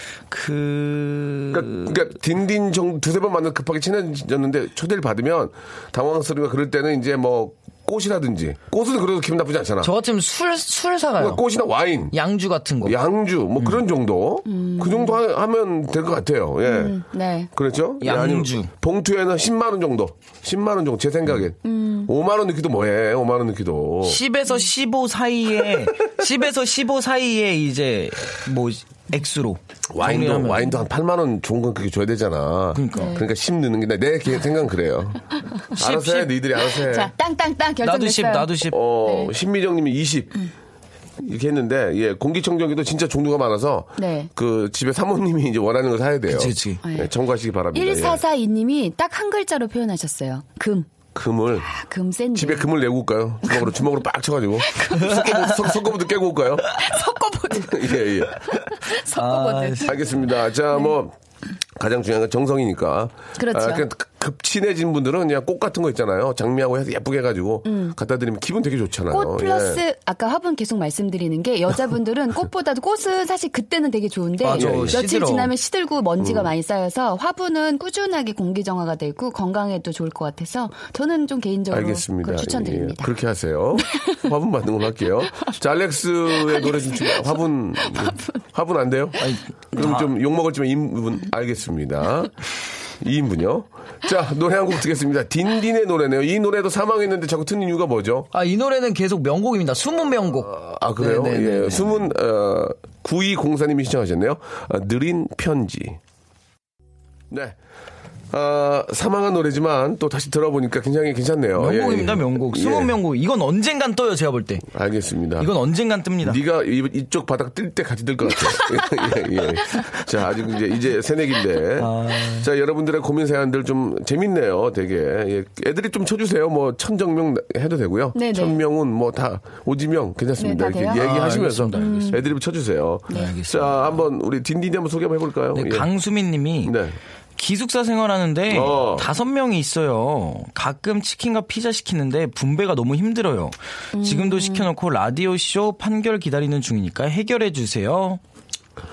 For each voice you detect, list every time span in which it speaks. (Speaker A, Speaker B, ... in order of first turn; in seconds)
Speaker A: 0.3-2.0, 9.8-11.4, 12.1-13.0, 18.0-18.7, 24.0-30.7, 32.7-33.2, 35.8-36.3, 37.8-38.8, 46.3-46.8, 59.1-60.1, 74.4-75.5, 89.2-90.1, 98.3-102.0, 111.6-114.7, 115.4-116.4, 121.8-122.5, 130.9-132.2, 133.1-134.0, 135.5-136.8, 137.4-148.2
Speaker B: 1.5-9.9, 11.2-12.1, 12.8-17.0, 17.5-24.2, 29.9-37.1, 38.7-40.4, 41.2-48.2, 51.1-51.7, 52.3-56.7, 57.7-58.4, 59.8-61.1, 61.8-69.8, 74.5-75.0, 76.2-76.5, 81.7-92.3, 93.0-98.3, 100.4-106.0, 107.3-107.6, 108.3-112.9, 114.7-115.5, 116.2-135.9, 136.6-137.0, 138.5-139.1
Speaker C: 14.4-15.2, 16.6-17.5, 21.6-22.1, 32.9-33.2, 36.8-39.3, 44.0-44.3, 46.8-47.1, 47.7-50.9, 51.7-52.7, 54.6-55.6, 56.8-59.9, 63.4-63.8, 67.6-67.9, 69.1-83.1, 83.9-84.2, 86.3-88.3, 128.1-128.6, 130.4-131.0, 131.7-132.2, 133.1-133.3, 143.9-144.7